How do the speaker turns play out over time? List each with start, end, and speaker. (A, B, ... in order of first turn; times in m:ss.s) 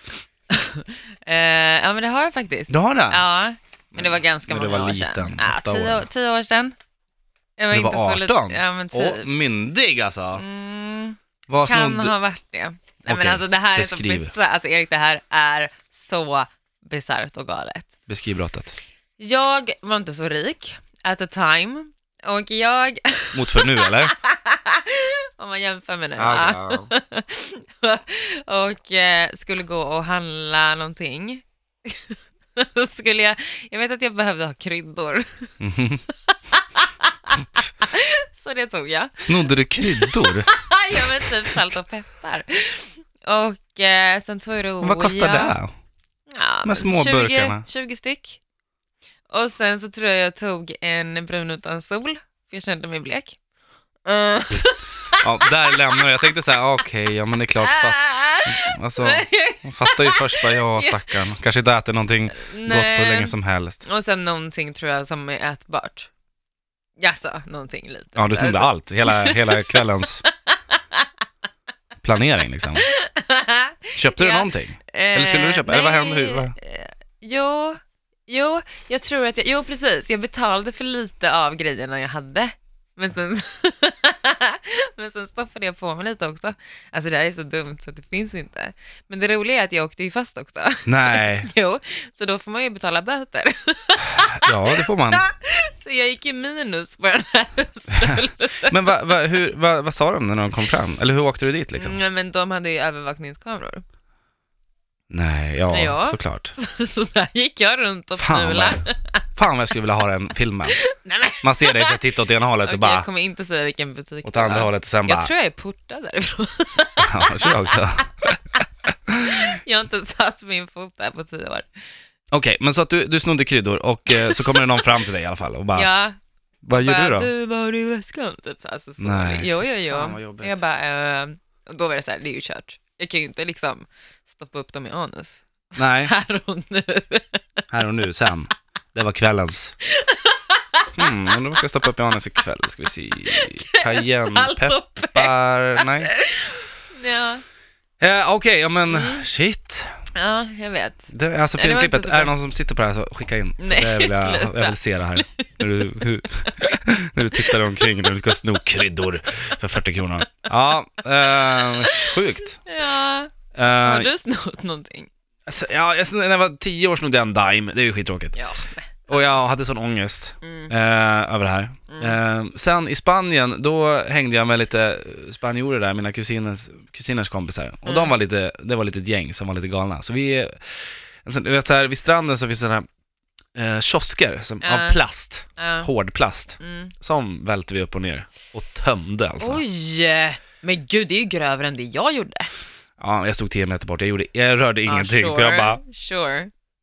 0:00.5-0:06.8 A
0:02.7-0:03.2 B
0:03.9-0:06.0 B
0:07.6-0:09.3 A
0:07.7-0:10.4 B
0:10.3-0:17.9 A
0:11.5-0:12.1 B
0:13.1-0:14.3 B
0:18.1-0:18.8 B
0:19.2-0:35.5 A
0:23.3-0:24.1 B
0:26.2-0:26.9 B
0:35.6-0:36.0 B
0:36.3-0:45.6 A
0:39.2-0:40.5 B
0:44.8-0:45.7 B
0:46.3-0:48.4 A
0:46.6-0:47.6 B
0:49.3-0:53.4 A
0:54.0-0:56.2 A
0:55.2-1:03.8 B
0:57.6-1:01.2 A
1:02.3-1:03.3 A
1:03.8-1:06.1 A
1:07.0-1:11.0 A
1:08.2-1:10.2 B
1:12.0-1:12.9 B
1:12.8-1:38.8 A
1:13.9-1:16.5 B
1:30.8-1:31.5 B
1:34.2-1:35.2 B
1:37.9-1:42.0 B
1:41.8-1:43.8 A
1:45.1-1:46.5 B
1:45.7-1:49.2 A
1:48.2-1:50.8 B
1:50.7-1:52.0 A
1:51.4-1:53.0 B
1:52.6-1:57.8 A
1:54.2-1:55.3 B
1:57.0-1:58.4 B
1:59.1-1:59.4 B
1:59.2-2:01.7 A
2:02.3-2:05.9 B
2:04.1-2:04.7 A
2:05.7-2:06.2 A
2:06.6-2:07.3 B
2:06.7-2:15.5 A
2:09.0-2:10.6 B
2:15.8-2:16.1 B
2:16.0-2:17.6 A
2:17.7-2:19.7 B
2:19.8-2:21.3 A
2:20.9-2:26.1 B
2:23.3-2:27.4 A
2:28.0-2:29.9 B
2:28.9-2:29.2 A
2:30.2-2:32.3 A
2:31.1-2:42.6 B
2:33.6-2:35.6 A
2:41.4-2:45.1 A
2:43.5-2:44.1 B
2:45.4-2:48.4 B
2:48.3-2:49.4 A
2:49.1-3:02.8 B
2:50.4-2:50.7 A
2:51.9-2:52.2 A
2:57.8-2:58.1 A
3:03.5-3:09.6 B
3:04.6-3:05.0 A
3:05.6-3:05.9 A
3:06.6-3:06.9 A
3:09.4-3:12.5 A
3:13.0-3:15.8 B
3:14.9-3:16.5 A